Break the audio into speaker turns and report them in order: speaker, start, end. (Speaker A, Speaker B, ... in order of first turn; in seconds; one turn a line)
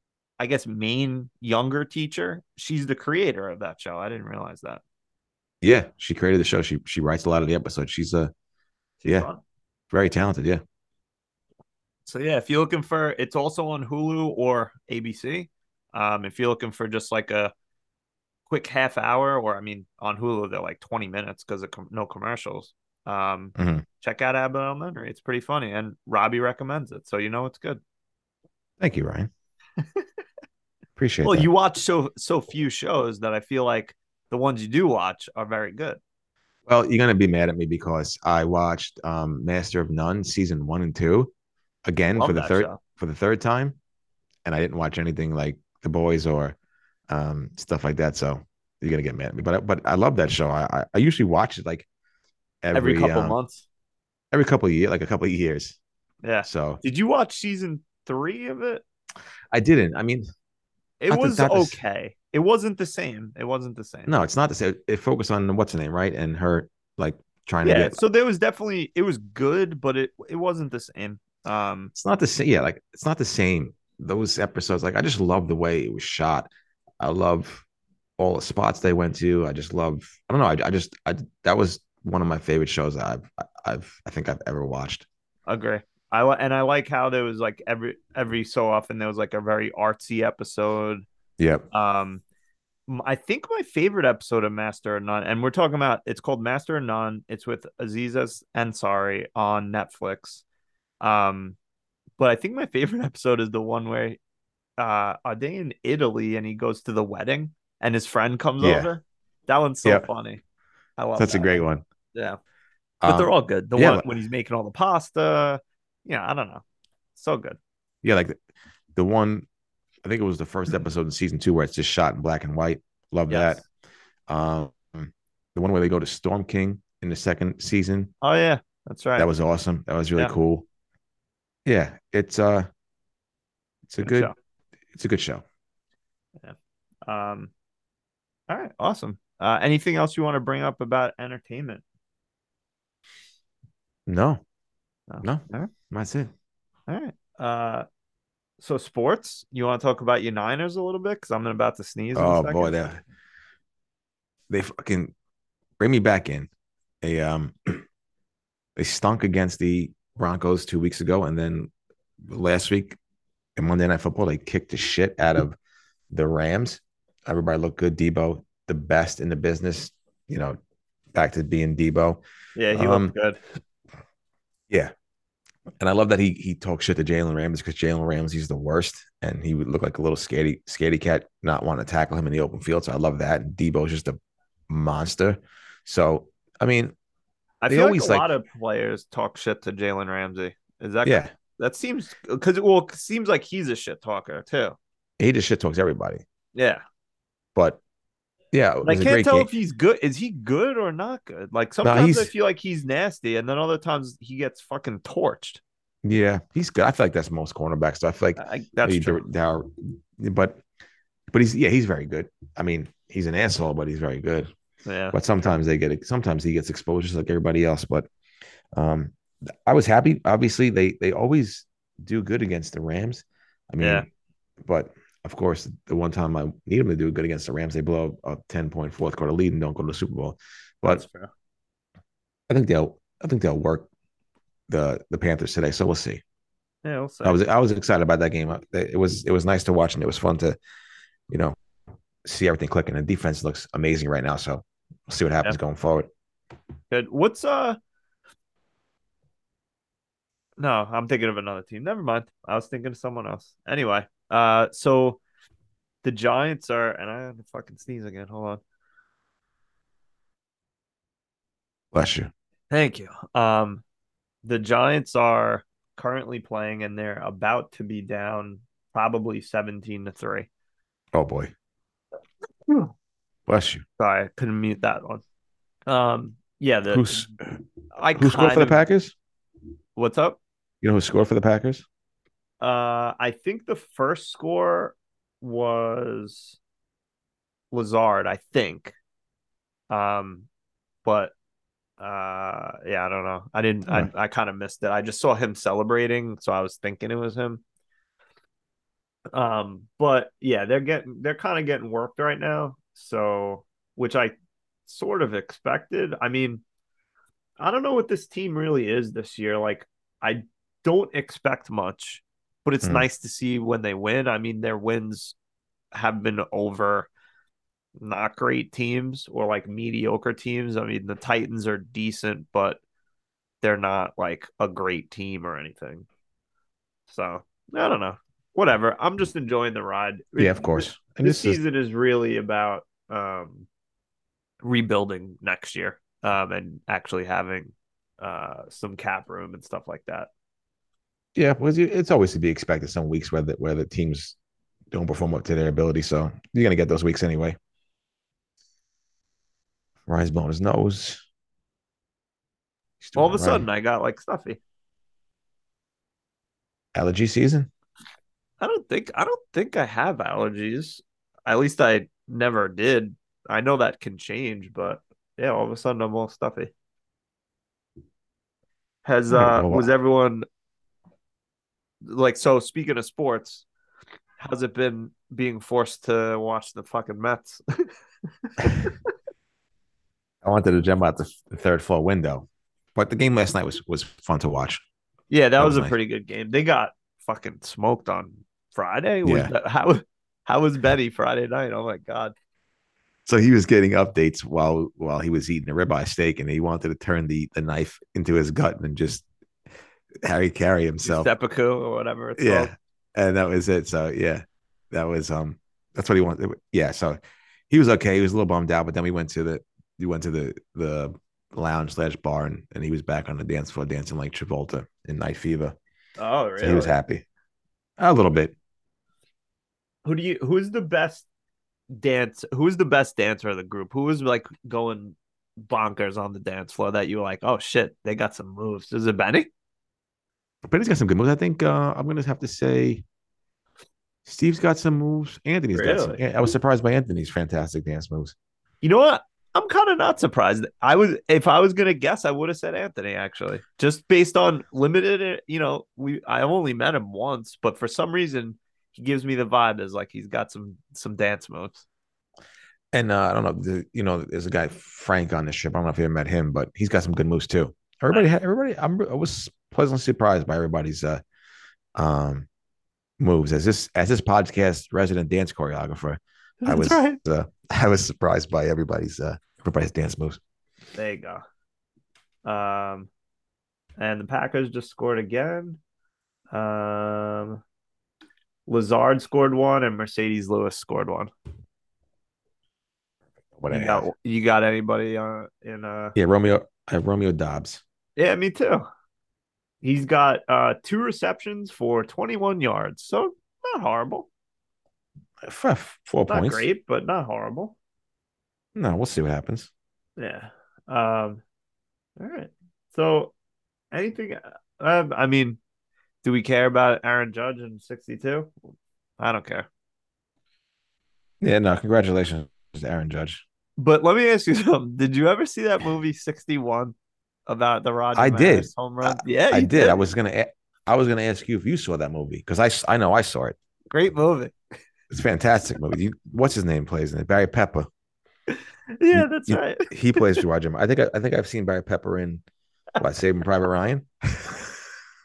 Speaker A: 0.4-4.8
Speaker B: 5.6-8.3
Speaker A: 9.0-9.4
Speaker B: 9.9-10.6
Speaker A: 12.1-17.5
Speaker A: 18.5-27.8
Speaker B: 23.6-23.8
Speaker B: 28.8-29.3
Speaker B: 31.0-31.5
Speaker A: 31.2-36.0
Speaker B: 36.7-41.3
Speaker B: 41.9-43.8
Speaker A: 42.2-42.8
Speaker B: 44.5-46.6
Speaker B: 47.1-51.9
Speaker B: 52.6-53.4
Speaker A: 52.7-53.6
Speaker B: 54.3-55.8
Speaker A: 56.2-58.8
Speaker B: 56.5-56.8
Speaker B: 59.5-60.3
Speaker A: 61.0-64.1
Speaker B: 61.1-61.8
Speaker B: 64.1-68.0
Speaker A: 67.6-71.9
Speaker B: 72.0-76.5
Speaker B: 77.0-77.7
Speaker B: 78.2-85.1
Speaker A: 85.5-91.0
Speaker B: 91.4-91.7
Speaker A: 91.7-92.2
Speaker A: 92.9-100.4
Speaker A: 101.0-101.6
Speaker A: 102.2-104.2
Speaker A: 104.8-110.4
Speaker B: 108.6-108.9
Speaker A: 111.0-112.4
Speaker B: 111.2-111.8
Speaker B: 113.0-114.1
Speaker A: 113.1-116.6
Speaker A: 117.2-117.6
Speaker B: 118.0-118.4
Speaker B: 119.0-119.5
Speaker B: 120.0-123.6
Speaker A: 123.3-123.6
Speaker B: 124.3-128.1
Speaker A: 128.2-129.3
Speaker B: 129.2-130.7
Speaker B: 131.7-132.7
Speaker B: 133.9-134.3
Speaker A: 134.0-134.3
Speaker B: 134.9-135.4
Speaker A: 137.1-137.5
Speaker A: 138.5-141.8
Speaker B: 144.1-144.4
Speaker A: 145.1-145.7
Speaker B: 145.2-146.3
Speaker A: 146.9-147.8
Speaker A: 148.6-152.9
Speaker B: 152.2-153.0
Speaker B: 154.5-155.1
Speaker B: 155.8-156.5
Speaker B: 157.0-157.8
Speaker B: 158.8-161.7
Speaker B: 162.2-163.0
Speaker B: 163.6-165.6
Speaker B: 166.1-170.6
Speaker B: 171.1-172.2
Speaker A: 172.6-173.4
Speaker B: 172.7-173.1
Speaker B: 175.8-186.9
Speaker A: 187.6-194.8
Speaker B: 187.7-188.3
Speaker B: 191.1-191.3
Speaker B: 195.2-196.2
Speaker A: 196.6-196.8
Speaker B: 197.6-197.8
Speaker B: 198.5-199.5
Speaker A: 198.8-205.6
Speaker B: 201.8-202.3
Speaker B: 206.0-210.6
Speaker A: 208.4-209.2
Speaker B: 211.3-214.5
Speaker A: 214.9-215.2
Speaker B: 215.1-218.1
Speaker B: 218.7-219.2
Speaker B: 219.7-224.1
Speaker A: 223.8-224.1
Speaker B: 224.6-231.0
Speaker A: 230.8-231.3
Speaker B: 232.5-233.9
Speaker B: 234.7-236.2
Speaker A: 236.8-237.4
Speaker B: 237.2-240.6
Speaker B: 241.3-241.6
Speaker B: 242.2-246.1
Speaker A: 246.9-247.8
Speaker A: 250.6-255.2
Speaker A: 256.0-258.6
Speaker B: 261.9-262.3
Speaker A: 262.7-263.8
Speaker A: 264.4-270.5
Speaker B: 271.1-271.5
Speaker B: 273.5-273.9
Speaker A: 274.0-275.2
Speaker A: 275.9-277.3
Speaker B: 276.9-277.6
Speaker A: 277.9-278.8
Speaker B: 278.1-279.1
Speaker A: 280.0-280.4
Speaker B: 280.8-281.9
Speaker A: 282.6-286.6
Speaker A: 287.7-288.9
Speaker A: 289.9-290.5
Speaker A: 291.1-291.3
Speaker A: 292.0-297.6
Speaker A: 299.3-304.4
Speaker A: 304.9-306.6
Speaker A: 307.6-315.4
Speaker A: 315.9-317.1
Speaker A: 318.0-322.8
Speaker A: 323.6-326.1
Speaker A: 327.1-333.7
Speaker B: 330.4-331.6
Speaker A: 334.6-340.3
Speaker B: 341.4-344.4
Speaker B: 344.9-347.6
Speaker B: 350.1-351.2
Speaker B: 353.0-353.7
Speaker A: 353.2-354.6
Speaker B: 356.9-357.7
Speaker A: 358.6-366.7
Speaker A: 369.1-370.4
Speaker B: 369.3-369.9
Speaker A: 372.0-373.7
Speaker A: 374.4-377.6
Speaker A: 378.5-378.9
Speaker B: 380.4-384.8
Speaker A: 385.3-392.3
Speaker B: 385.6-385.9
Speaker B: 389.2-389.5
Speaker B: 393.3-399.3
Speaker B: 400.2-401.3
Speaker A: 401.0-402.7
Speaker B: 402.4-415.8
Speaker A: 416.2-416.9
Speaker B: 416.6-417.2
Speaker B: 418.0-418.6
Speaker A: 420.1-421.3
Speaker A: 421.9-429.5
Speaker B: 430.7-433.0
Speaker B: 434.2-438.4
Speaker A: 435.7-436.2
Speaker A: 438.8-451.9
Speaker B: 452.9-461.2
Speaker B: 461.9-462.5
Speaker B: 463.2-470.4
Speaker A: 466.6-467.2
Speaker A: 471.0-471.4
Speaker A: 472.4-473.1
Speaker A: 474.0-475.8
Speaker A: 476.5-477.6
Speaker A: 478.7-481.3
Speaker B: 483.6-484.1
Speaker A: 483.7-486.1
Speaker B: 486.1-487.8
Speaker A: 488.2-488.9
Speaker A: 489.8-494.3
Speaker B: 495.4-496.7
Speaker A: 496.3-497.8
Speaker B: 498.8-499.7
Speaker A: 500.2-501.4
Speaker A: 502.2-503.3
Speaker A: 503.9-505.6
Speaker A: 506.2-508.5
Speaker A: 509.2-509.7
Speaker B: 511.4-513.4
Speaker A: 513.8-516.9
Speaker A: 517.5-520.0
Speaker B: 518.1-523.6
Speaker A: 523.9-524.5
Speaker B: 525.1-527.9
Speaker A: 528.5-530.4
Speaker B: 529.1-532.4
Speaker B: 533.0-534.7